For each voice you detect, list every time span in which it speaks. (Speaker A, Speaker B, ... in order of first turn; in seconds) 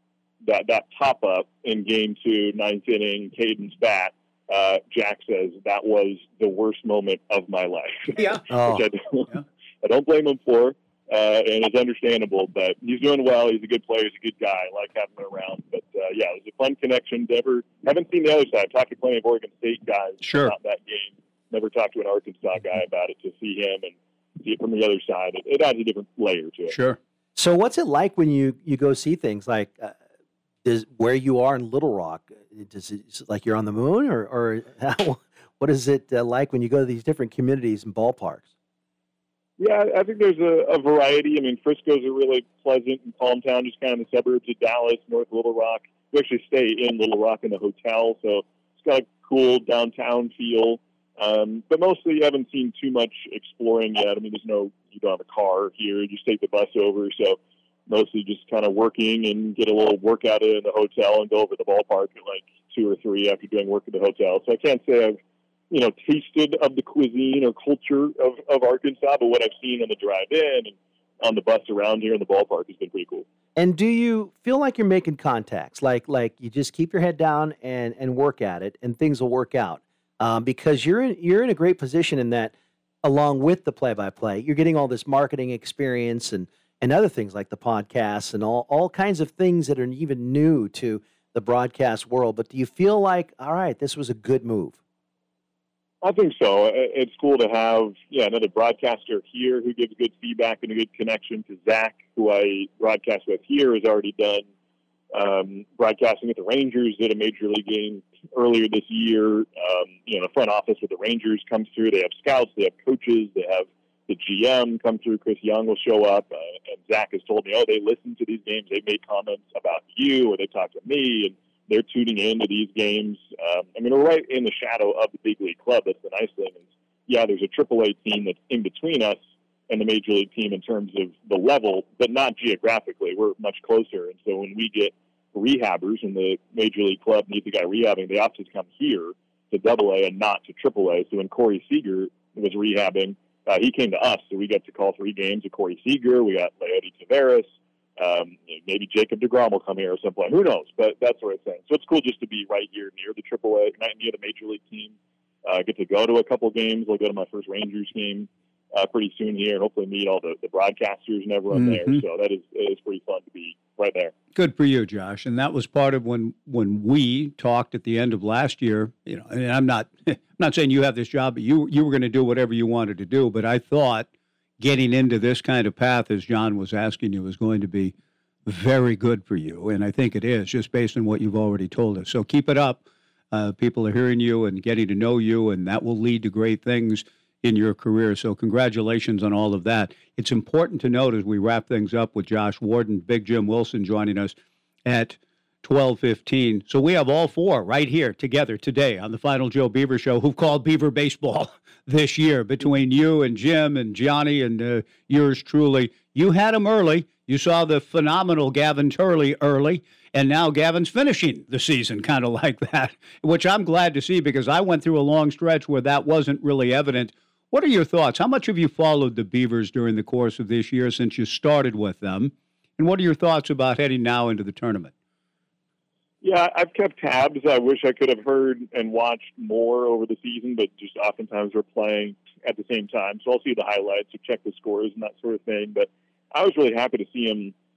Speaker A: 0.4-9.2, 9.8-26.8, 39.6-65.2, 65.7-73.2, 96.0-104.5, 105.1-154.9, 155.4-164.1, 226.2-237.5
Speaker B: 8.1-8.4, 20.2-20.6, 26.7-27.0, 161.5-162.0, 164.3-174.1, 174.6-177.9, 178.4-224.9
Speaker C: 8.5-8.9, 27.4-29.9, 30.6-38.5, 73.5-94.8